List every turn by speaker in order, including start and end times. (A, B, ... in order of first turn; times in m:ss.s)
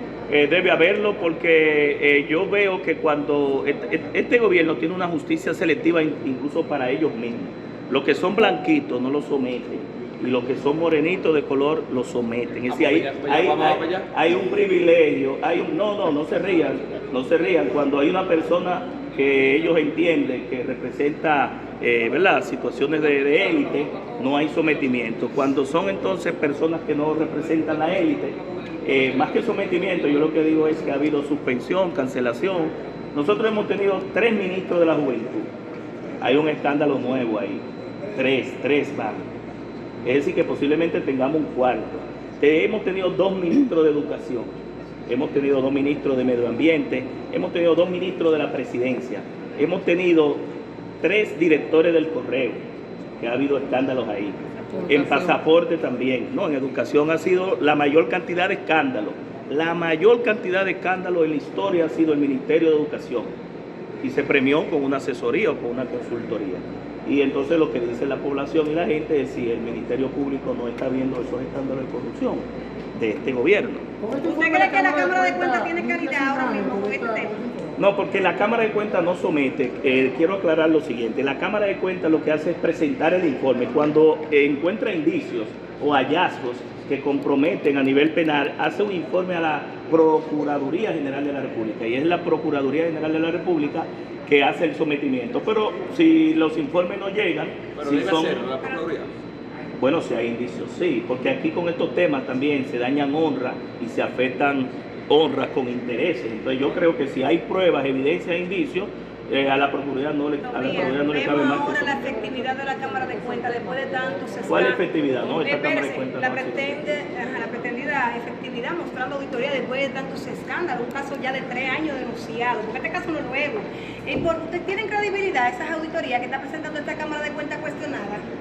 0:00.3-0:35.5 A
0:12.7-0:14.1 B
0:36.2-0:39.3 A
0:40.0-0:44.5 A
0:45.1-0:50.4 A
0:51.0-0:52.6 A
0:53.2-1:03.3 A
1:04.0-1:13.9 A
1:14.2-1:17.4 C
1:17.8-1:38.5 A
1:37.8-1:39.1 B
1:39.8-1:52.1 A
1:50.5-2:08.2 C
1:54.5-1:56.7 A